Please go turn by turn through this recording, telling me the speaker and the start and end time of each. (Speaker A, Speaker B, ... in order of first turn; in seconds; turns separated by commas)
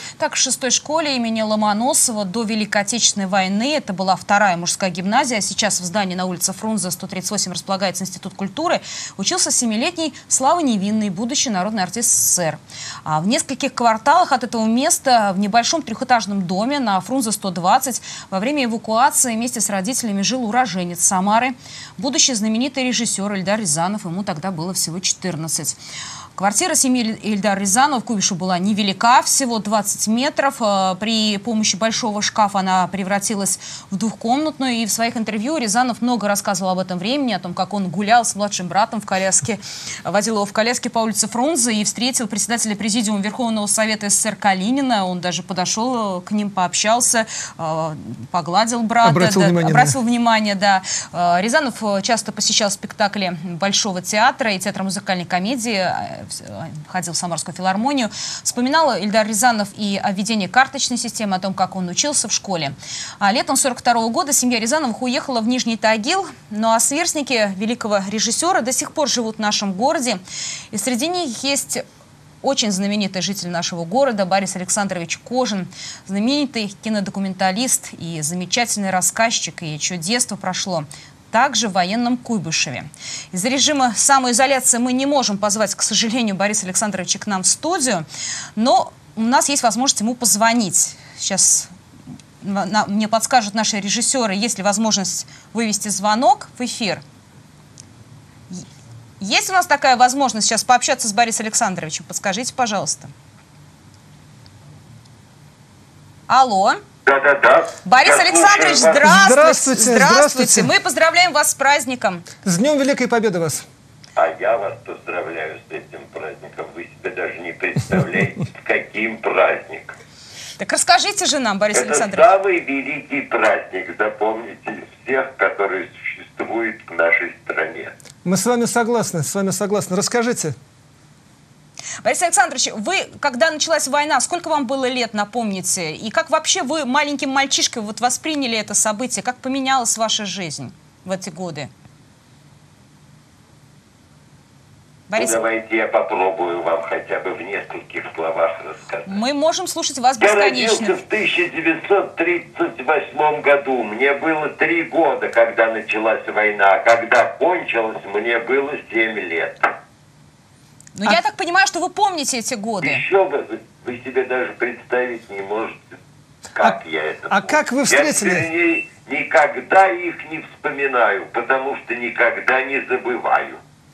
Speaker A: 0.2-25.8, Speaker A: 26.4-70.2, Speaker B: 49.0-50.0, Speaker A: 70.7-71.8, Speaker A: 72.4-91.7, Speaker A: 92.4-97.0, Speaker A: 99.2-103.1, Speaker A: 106.3-106.8, Speaker C: 107.0-109.1, Speaker A: 107.8-112.3, Speaker B: 109.0-110.7, Speaker B: 112.4-113.7, Speaker C: 114.2-120.0, Speaker A: 120.6-122.3, Speaker C: 121.7-127.9, Speaker B: 128.2-130.6, Speaker A: 132.0-141.7, Speaker A: 145.1-145.4, Speaker C: 145.2-149.2, Speaker A: 149.1-151.0, Speaker C: 150.2-159.7, Speaker A: 160.9-163.0, Speaker C: 162.8-165.8, Speaker C: 166.6-173.6, Speaker B: 167.3-168.4